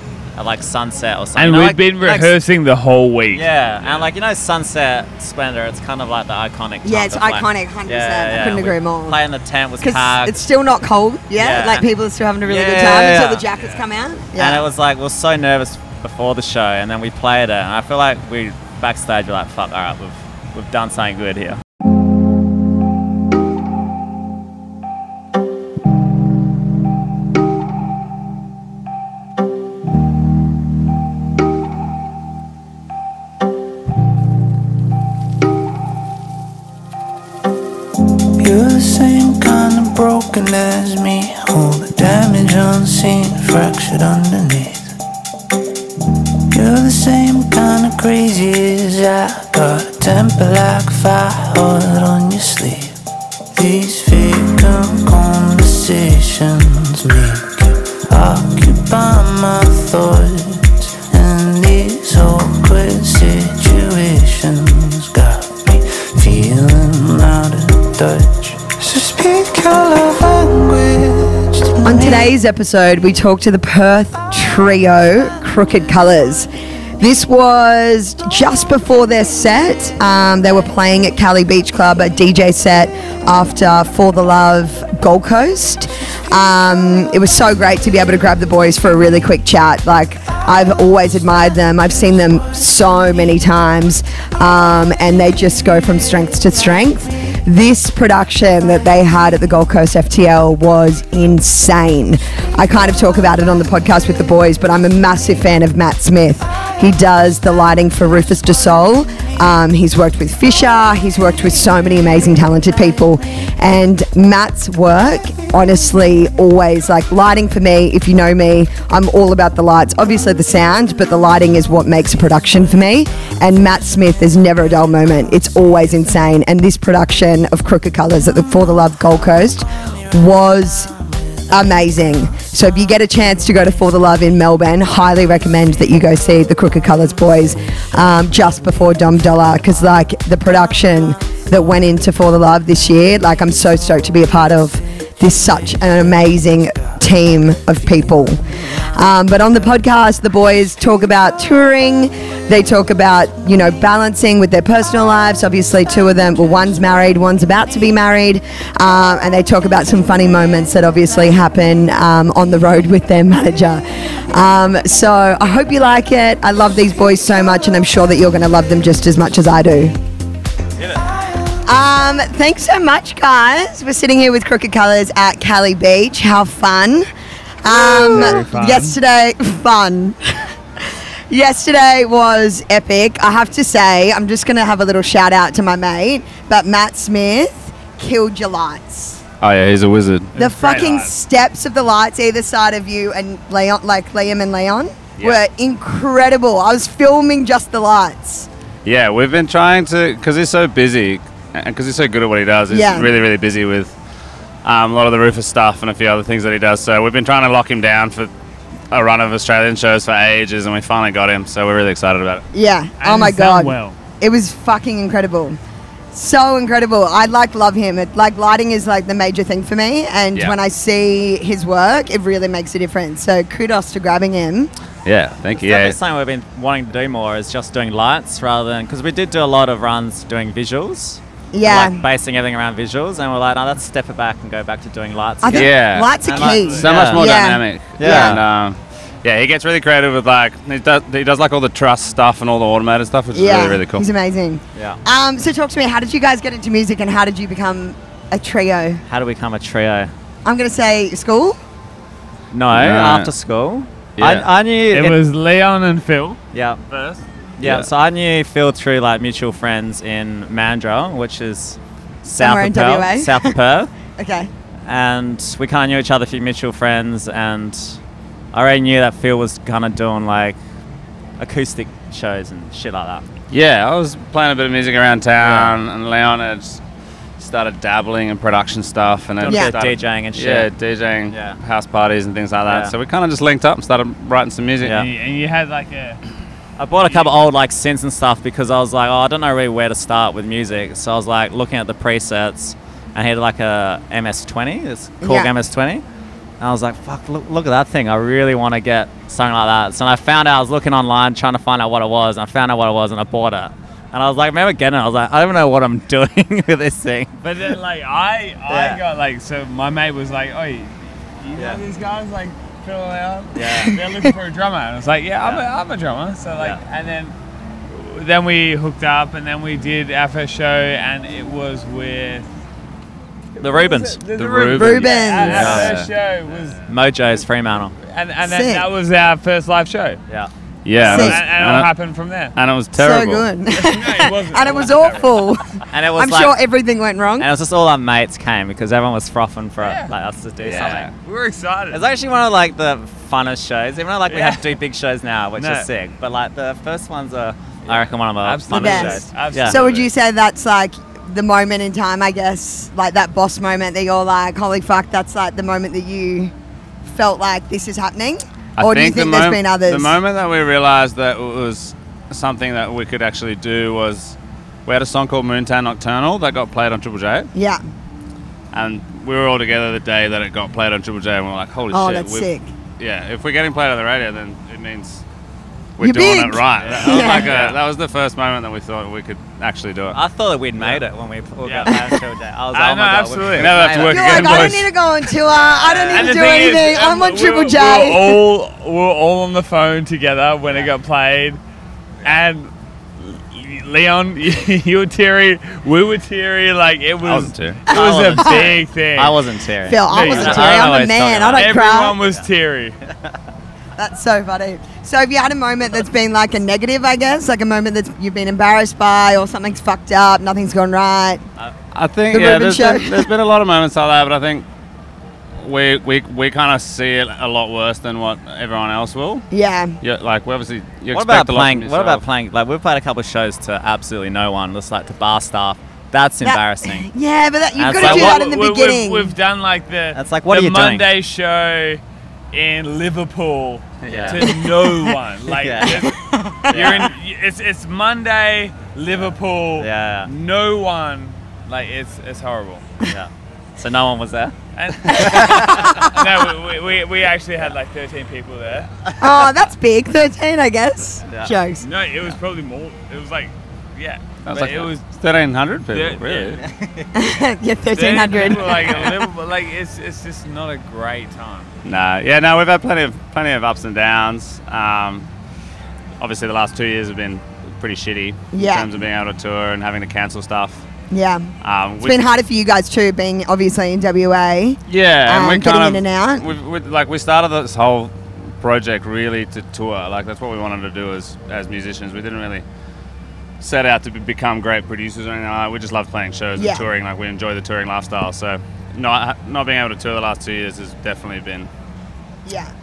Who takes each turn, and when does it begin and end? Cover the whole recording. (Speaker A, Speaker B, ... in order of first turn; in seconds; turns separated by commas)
Speaker A: 0.3-2.3, Speaker B: 1.4-3.5, Speaker A: 3.3-10.4, Speaker C: 3.8-4.1, Speaker D: 6.8-9.2, Speaker D: 9.8-14.7, Speaker A: 11.3-11.8, Speaker A: 12.4-13.4, Speaker A: 14.4-21.6, Speaker E: 38.4-45.0, Speaker E: 46.5-53.0, Speaker E: 53.5-72.3, Speaker D: 71.8-130.9, Speaker D: 131.5-169.9, Speaker D: 171.6-177.0, Speaker D: 177.6-180.2, Speaker B: 177.7-179.0, Speaker D: 181.3-189.2, Speaker C: 189.4-191.1, Speaker D: 190.4-198.5, Speaker B: 190.4-190.9, Speaker C: 198.8-203.9, Speaker D: 202.7-203.2, Speaker C: 204.6-208.3, Speaker C: 208.9-212.4, Speaker D: 212.5-215.6, Speaker B: 213.0-213.9, Speaker D: 216.1-224.7, Speaker C: 225.1-226.0, Speaker A: 225.6-235.7, Speaker D: 231.5-232.0, Speaker D: 235.4-238.4, Speaker C: 235.5-244.0, Speaker B: 236.2-236.9, Speaker A: 236.3-237.3, Speaker A: 238.0-238.4, Speaker D: 243.3-249.0, Speaker A: 244.8-245.0, Speaker A: 249.1-250.1, Speaker D: 250.4-251.6, Speaker A: 252.5-255.2, Speaker C: 252.7-253.3, Speaker C: 254.2-254.5, Speaker B: 254.9-256.4, Speaker A: 256.5-256.8, Speaker C: 256.9-257.9, Speaker A: 257.6-263.9, Speaker D: 262.2-263.6, Speaker D: 264.2-264.5, Speaker A: 264.9-268.0, Speaker A: 268.5-270.6, Speaker A: 271.4-273.2, Speaker C: 273.5-276.8, Speaker A: 275.4-275.8, Speaker C: 277.4-285.0, Speaker A: 279.4-280.7, Speaker D: 279.4-279.7, Speaker A: 281.3-281.6, Speaker A: 282.6-282.9, Speaker A: 284.8-285.1, Speaker B: 284.9-286.2, Speaker A: 286.8-296.1, Speaker B: 287.1-287.3, Speaker D: 295.2-295.5, Speaker A: 296.6-307.4, Speaker B: 307.4-317.4, Speaker A: 308.7-309.0, Speaker A: 311.6-311.8, Speaker A: 313.6-313.9, Speaker B: 317.9-322.5, Speaker A: 323.6-324.2, Speaker B: 323.6-326.8, Speaker C: 324.4-326.6, Speaker D: 324.8-325.6, Speaker A: 325.4-325.9, Speaker A: 326.9-327.9, Speaker B: 328.1-330.2, Speaker D: 328.4-328.9, Speaker C: 330.9-331.9, Speaker B: 331.0-332.6, Speaker D: 331.1-331.4, Speaker C: 332.6-333.6, Speaker D: 332.9-337.5, Speaker B: 333.7-335.4, Speaker A: 335.9-336.6, Speaker A: 337.4-341.1, Speaker B: 339.8-340.1, Speaker C: 340.6-341.1, Speaker B: 341.2-342.0, Speaker A: 341.9-349.8, Speaker B: 344.3-344.8, Speaker B: 345.6-345.9, Speaker B: 347.9-350.1, Speaker D: 348.7-356.5, Speaker D: 357.1-360.2, Speaker C: 358.8-367.5, Speaker D: 367.5-367.8, Speaker C: 368.7-375.2, Speaker D: 371.9-372.7, Speaker C: 376.0-380.2, Speaker D: 376.0-377.6, Speaker A: 376.8-377.8, Speaker A: 380.1-384.7, Speaker B: 381.6-381.9, Speaker B: 382.7-383.8, Speaker C: 383.6-384.9, Speaker D: 384.1-388.4, Speaker B: 385.8-391.6, Speaker A: 385.8-386.7, Speaker B: 392.2-399.4, Speaker C: 397.2-397.9, Speaker D: 397.9-398.7, Speaker A: 397.9-401.7, Speaker D: 399.9-402.2, Speaker B: 400.1-400.8, Speaker B: 401.5-403.0, Speaker D: 404.0-411.4, Speaker C: 411.9-414.6, Speaker D: 412.3-413.3, Speaker C: 415.6-419.5, Speaker D: 419.5-420.0, Speaker C: 420.0-422.2, Speaker A: 421.1-427.1, Speaker D: 426.4-429.3, Speaker A: 427.8-428.5, Speaker B: 427.9-432.0, Speaker A: 430.1-431.1, Speaker B: 432.5-442.9, Speaker C: 434.0-434.6, Speaker A: 434.1-434.5, Speaker A: 435.5-437.1, Speaker A: 439.8-440.3, Speaker A: 443.1-446.1, Speaker B: 444.8-448.9, Speaker D: 449.2-451.9, Speaker A: 451.2-451.6, Speaker B: 451.8-455.0, Speaker C: 454.4-456.6, Speaker B: 455.9-456.6, Speaker A: 456.6-457.1, Speaker D: 457.1-459.0, Speaker B: 458.0-461.7, Speaker C: 461.8-465.3, Speaker C: 466.2-470.8, Speaker D: 468.5-468.9, Speaker D: 471.1-471.5, Speaker C: 471.6-472.2, Speaker D: 472.0-476.5, Speaker C: 474.9-482.6, Speaker C: 483.6-491.7, Speaker D: 486.6-486.9, Speaker D: 492.5-492.7